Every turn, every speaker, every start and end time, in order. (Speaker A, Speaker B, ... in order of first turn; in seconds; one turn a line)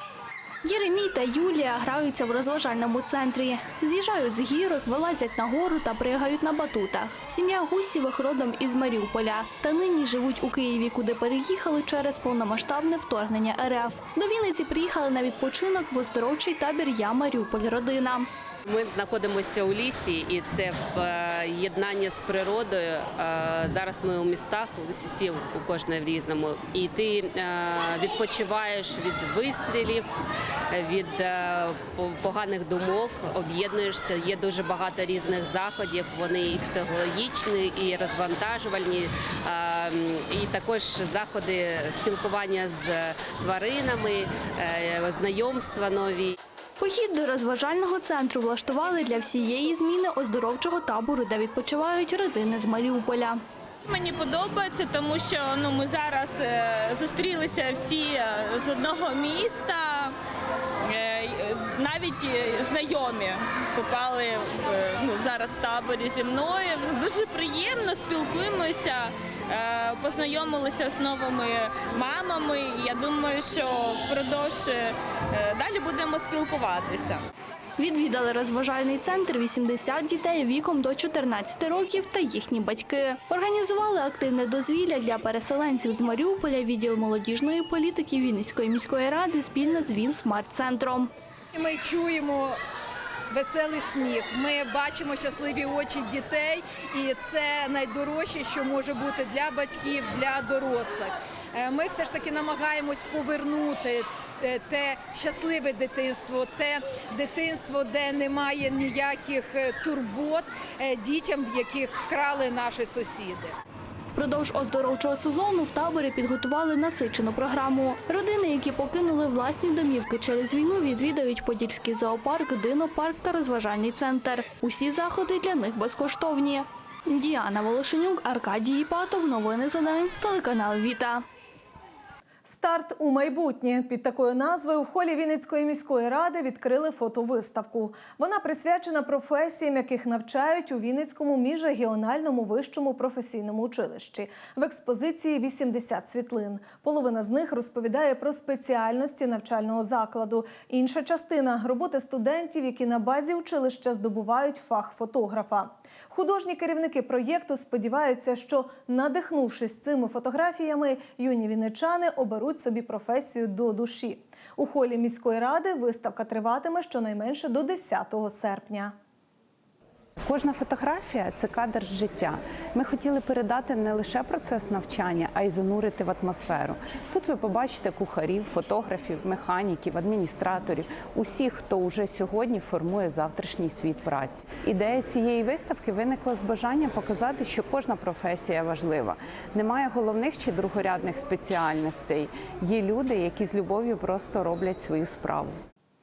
Speaker A: 0.6-18.3
Speaker B: 18.6-30.1
Speaker B: 30.7-46.4
Speaker A: 46.8-53.4
Speaker C: 53.9-60.2
Speaker C: 60.9-77.2
Speaker A: 77.8-91.1
Speaker D: 91.5-92.6
Speaker D: 93.3-113.6
Speaker A: 114.2-131.2
Speaker E: 132.4-168.9
Speaker F: 170.2-195.6